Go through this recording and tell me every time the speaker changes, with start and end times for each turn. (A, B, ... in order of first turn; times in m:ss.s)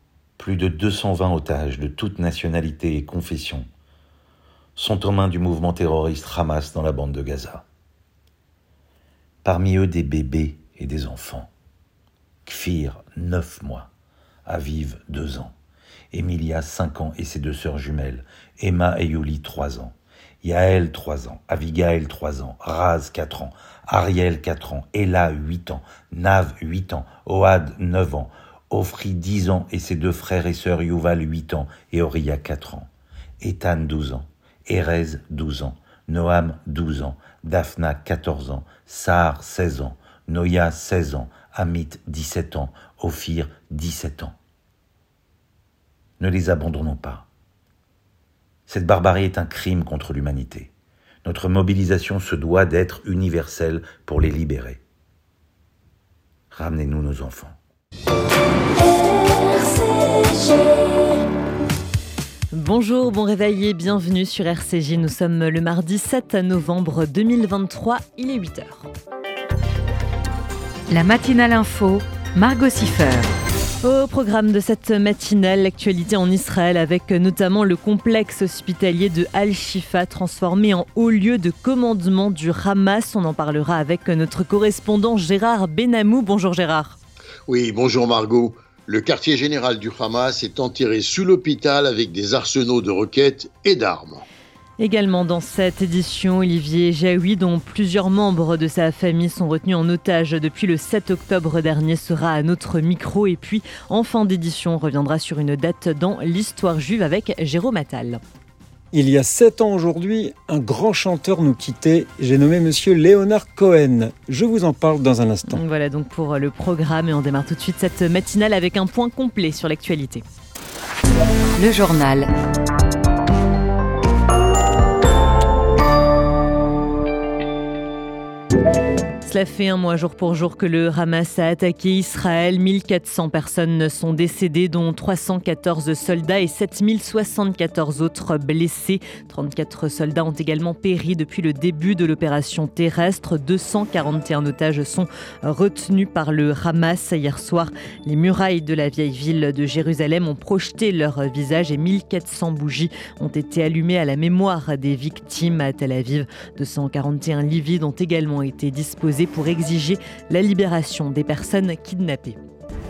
0:00.4-0:03.7 A
0:04.8-0:07.6 A
0:09.4-0:11.5 A
0:12.4-0:13.9 A
0:14.4-0:15.5 A
0:16.1-0:44.4 A
0:46.2-0:47.3 A
0:48.7-0:50.7 A
0:51.2-0:54.8 A
0:56.5-0:57.6 A
1:02.5-1:08.9 B
1:10.9-1:13.3 C
1:13.8-1:27.0 B
1:27.5-1:34.2 D
1:34.8-1:48.2 B
1:48.9-1:55.6 E
1:55.4-2:00.2 B
2:01.6-2:02.3 C
2:09.2-2:42.4 B